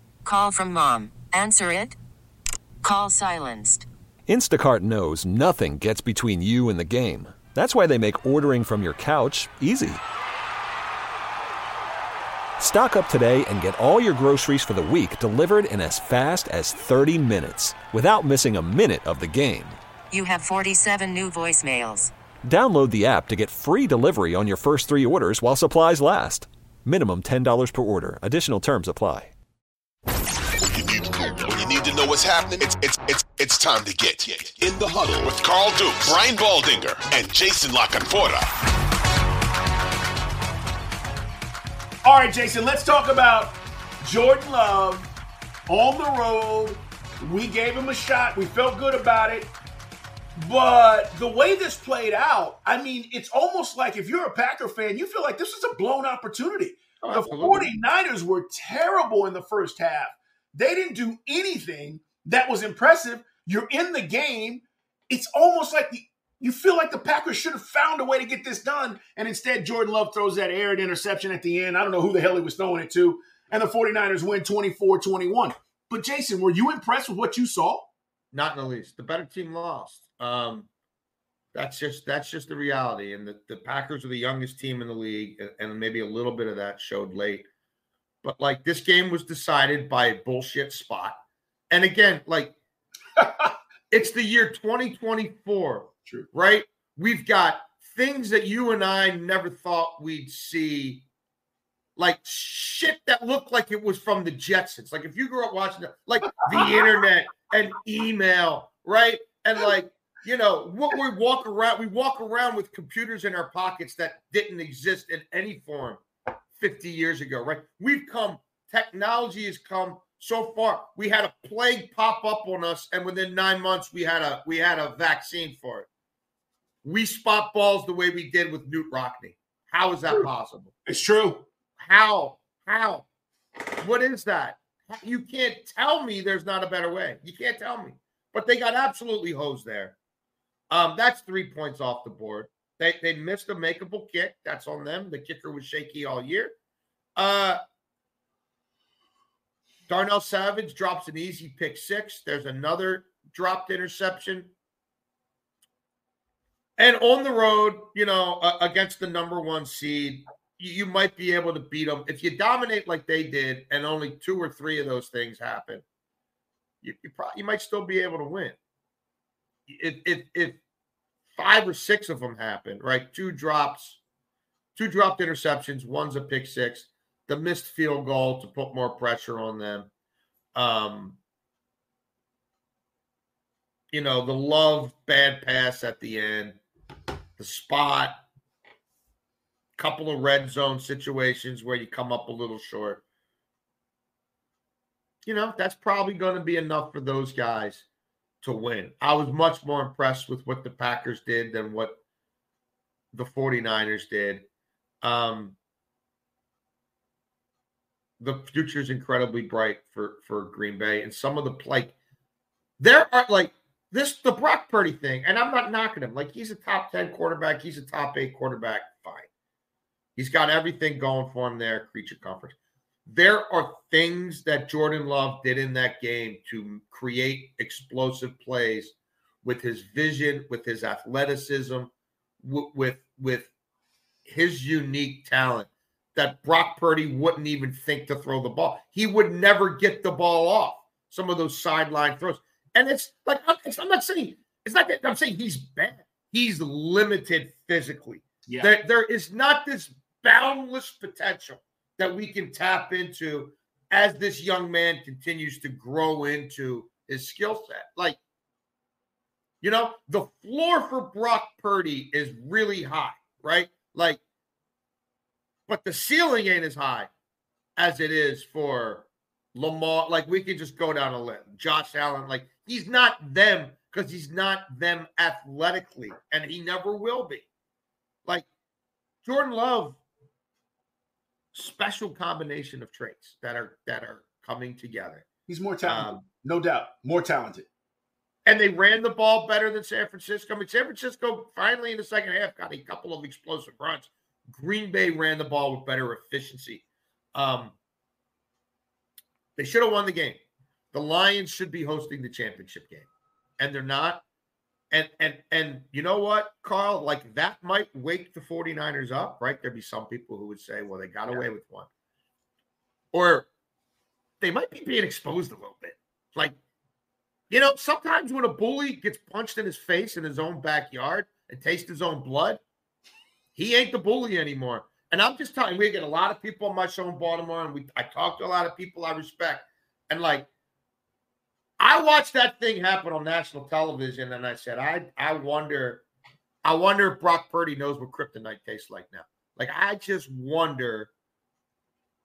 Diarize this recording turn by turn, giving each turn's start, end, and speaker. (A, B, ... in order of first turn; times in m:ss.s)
0:00.2-0:01.9 A
0:02.8-0:03.8 A
0:04.3-0:10.0 B
0:12.6-0:19.8 B
0:20.1-0:22.1 A
0:22.4-0:29.3 B
0:30.7-0:38.4 C
0:42.0-0:45.1 D
0:45.7-0:49.5 D
0:50.4-1:17.9 D
0:57.0-0:57.6 E
1:18.3-1:20.7 E
1:21.5-1:27.4 E
1:28.2-1:31.2 E
1:31.7-1:32.6 E
1:33.2-1:33.5 D
1:33.9-1:41.0 E
1:42.0-1:56.0 E
1:56.6-2:05.9 E
2:06.8-2:10.7 E
2:10.8-2:11.5 D
2:11.8-2:13.0 E
2:13.8-2:20.0 E
2:20.7-2:26.5 E
2:27.2-2:27.6 E
2:29.9-2:34.5 E
2:36.8-2:45.8 E
2:46.8-2:48.6 E
2:49.7-2:50.6 E
2:51.3-2:54.0 E
2:54.8-2:59.9 E
3:00.5-3:01.2 E
3:03.9-3:06.6 E
3:07.4-3:08.2 E
3:09.8-3:13.0 E
3:15.2-3:17.8 E
3:18.4-3:22.0 E
3:23.1-3:24.4 E
3:25.0-3:25.6 E
3:28.2-3:31.9 E
3:32.8-3:39.3 E
3:40.2-3:51.9 E
3:52.4-3:53.5 E
3:54.2-4:18.2 E
4:08.4-4:08.7 D
4:19.6-4:24.2 E
4:25.7-4:27.1 E
4:27.8-4:37.4 E
4:39.2-4:40.0 E
4:41.5-4:45.3 E
4:45.5-4:47.7 D
4:45.8-4:46.1 E
4:48.4-4:56.8 E
4:57.3-4:57.7 E
4:59.6-5:00.4 E
5:00.9-5:03.1 E
5:03.6-5:04.2 E
5:04.9-5:11.9 E
5:13.1-5:13.5 E
5:14.4-5:16.5 E
5:17.5-5:22.6 E
5:23.6-5:30.5 E
5:31.8-5:36.0 E
5:36.6-5:41.1 E